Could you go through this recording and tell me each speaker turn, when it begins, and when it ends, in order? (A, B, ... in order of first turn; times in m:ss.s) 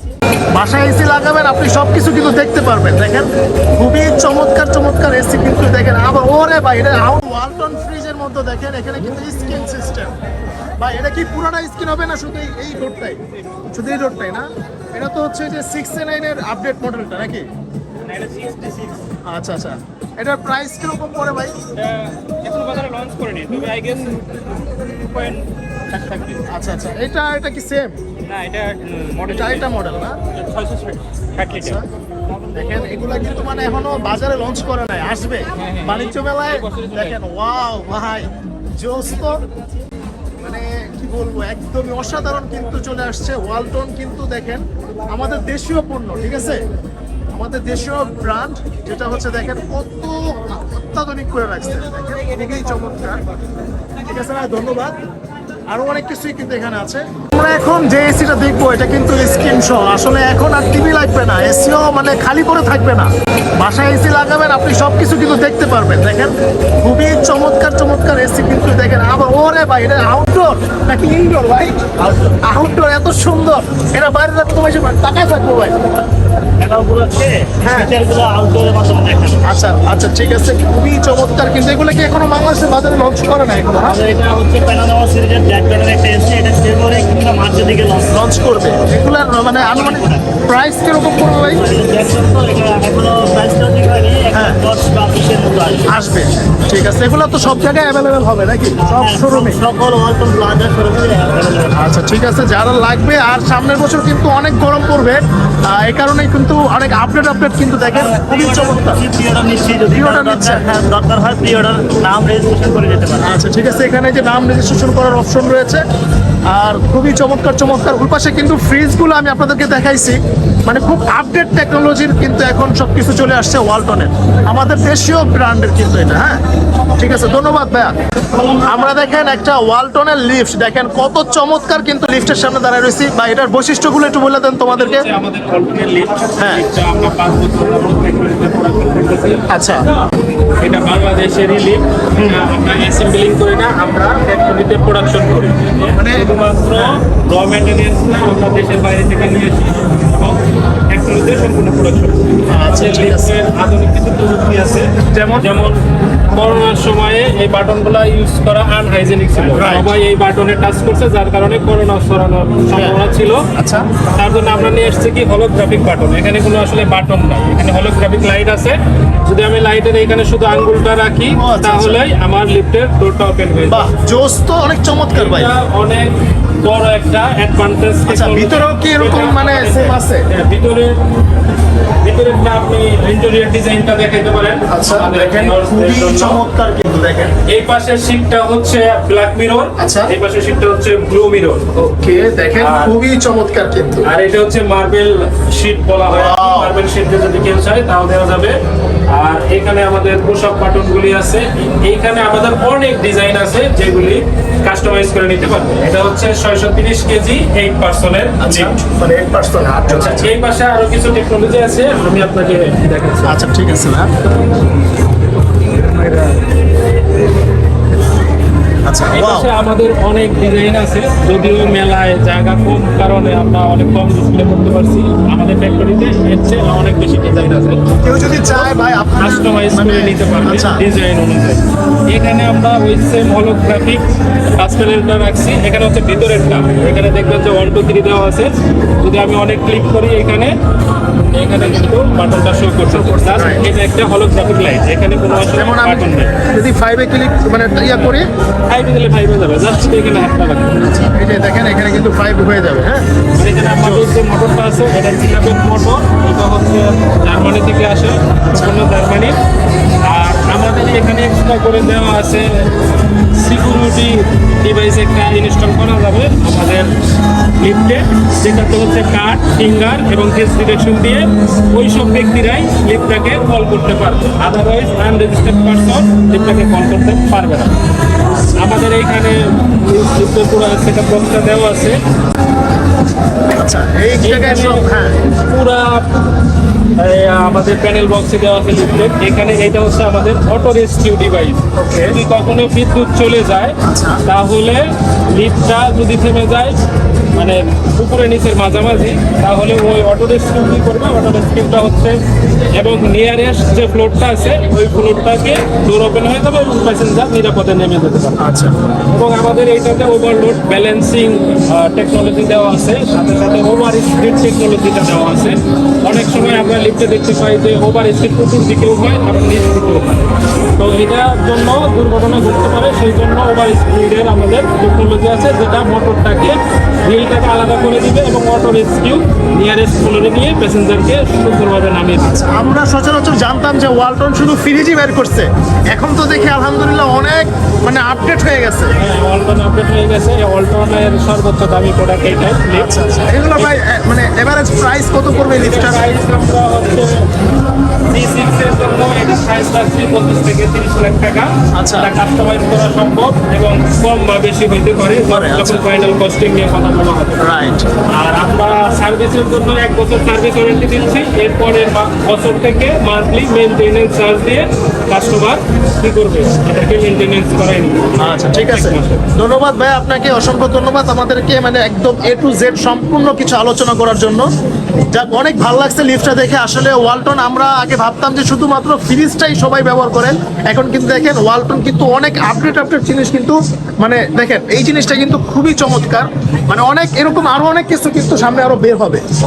0:00.5-0:10.1 A
0:10.8-0:13.2 A
0:13.7-0:17.4 A
0:18.0-0:19.0 B
0:19.3-0:21.6 A
0:21.7-0:26.4 B
0:26.4-0:28.0 A
0:28.2-0:29.7 B
0:29.3-0:30.2 A
0:30.3-0:31.8 B
0:31.5-0:31.8 A
0:32.5-0:39.4 A
0:35.6-0:37.2 B
0:40.4-0:46.6 A
0:47.3-0:53.2 A
0:54.0-0:55.0 A
0:55.7-1:11.9 A
1:12.0-1:12.4 C
1:12.4-1:15.8 A
1:16.6-1:19.4 C
1:17.6-1:17.9 A
1:19.4-1:24.0 A
1:23.8-1:28.3 C
1:28.1-1:31.6 A
1:29.6-1:30.3 C
1:31.4-1:35.9 C
1:34.3-1:34.6 A
1:35.9-1:39.6 A
1:38.8-1:41.9 C
1:41.7-1:49.0 A
1:47.9-1:53.3 C
1:49.9-1:50.7 A
1:53.2-1:55.8 A
1:56.5-2:06.4 A
2:07.0-2:08.0 A
2:08.6-2:15.1 A
2:14.7-2:19.4 B
2:16.4-2:16.6 A
2:19.5-2:19.8 A
2:20.6-2:35.8 B
2:22.2-2:22.4 A
2:25.9-2:27.0 A
2:32.5-2:33.4 A
2:35.1-2:35.4 A
2:36.3-2:43.4 B
2:39.6-2:40.0 A
2:42.7-2:43.0 A
2:43.5-2:43.9 A
2:44.1-2:53.9 B
2:51.3-2:52.0 A
2:53.7-2:55.5 A
2:55.1-3:00.9 B
2:58.1-3:00.2 A
3:02.0-3:06.4 B
3:04.7-3:07.3 A
3:07.5-3:11.7 B
3:09.8-3:10.1 A
3:11.7-3:14.0 A
3:12.5-3:12.9 B
3:14.0-3:18.6 B
3:16.0-3:16.8 A
3:19.1-3:28.8 B
3:28.4-3:30.3 A
3:29.9-3:33.4 B
3:33.2-3:34.1 A
3:38.8-3:39.5 A
3:39.1-3:54.0 B
3:48.0-3:50.8 A
3:54.6-4:00.5 B
4:01.3-4:06.3 B
4:02.8-4:03.6 A
4:05.3-4:08.3 A
4:08.0-4:10.8 B
4:10.8-4:13.0 A
4:13.4-4:19.4 B
4:13.6-4:14.1 A
4:18.5-4:18.8 A
4:20.1-4:22.7 B
4:23.3-4:26.9 B
4:27.6-4:37.7 B
4:38.6-4:42.0 B
4:43.6-4:45.2 A
4:44.2-4:44.9 B
4:45.4-4:46.2 B
4:47.0-4:56.8 B
4:51.8-4:52.1 A
4:53.8-4:54.2 A
4:57.4-5:02.2 B
5:02.8-5:08.4 B
5:08.4-5:08.7 A
5:09.1-5:32.6 B
5:32.2-5:38.9 A
5:39.0-5:43.8 B
5:42.7-5:46.0 A
5:45.4-5:47.2 B
5:48.1-5:57.4 B
5:51.8-5:52.1 A
5:55.2-5:55.8 A
5:57.4-5:57.9 A
5:58.1-6:09.3 B
6:08.2-6:14.5 A
6:15.1-6:29.2 A